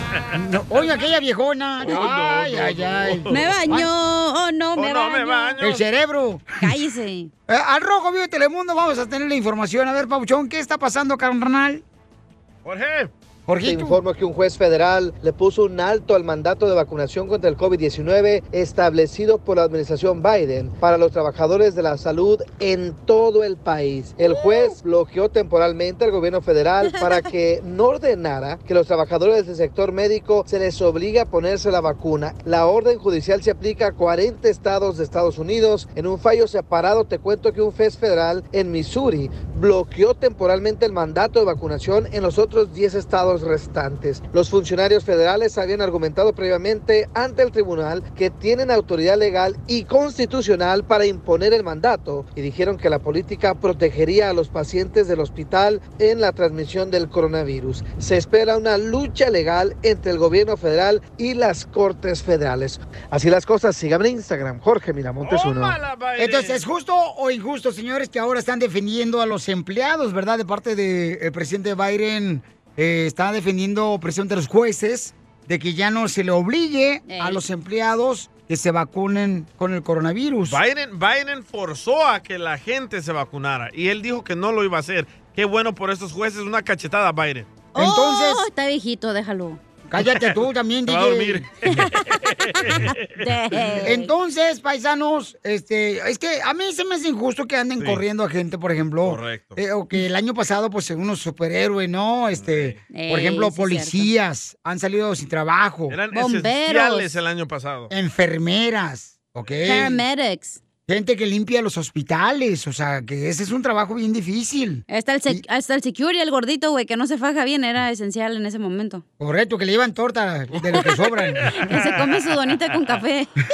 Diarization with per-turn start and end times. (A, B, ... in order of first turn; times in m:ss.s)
0:00.3-0:03.9 A
0:01.8-0:03.4 B
0:03.3-0:05.6 C
0:04.8-0:05.9 B
0:05.6-0:06.5 A
0:06.6-0:07.3 C
0:07.5-0:11.8 A
0:12.6-0:13.1 B
0:13.5-0:14.0 A
0:13.6-1:05.8 D
1:05.2-1:06.6 B
1:06.2-1:20.6 A
1:17.1-1:17.4 C
1:20.5-1:27.5 B
1:27.7-1:29.6 C
1:27.8-1:28.4 A
1:29.9-1:31.4 A
1:30.0-1:33.3 B
1:31.7-1:32.1 C
1:32.6-1:34.1 C
1:33.8-1:46.0 A
1:39.0-1:39.6 B
1:42.4-1:42.8 B
1:42.9-1:44.1 C
1:45.9-1:47.9 B
1:46.1-1:47.1 C
1:47.9-1:50.0 A
1:49.6-1:50.6 C
1:50.9-1:55.4 A
1:54.9-1:59.0 C
1:59.2-2:01.5 A
2:01.4-2:03.4 C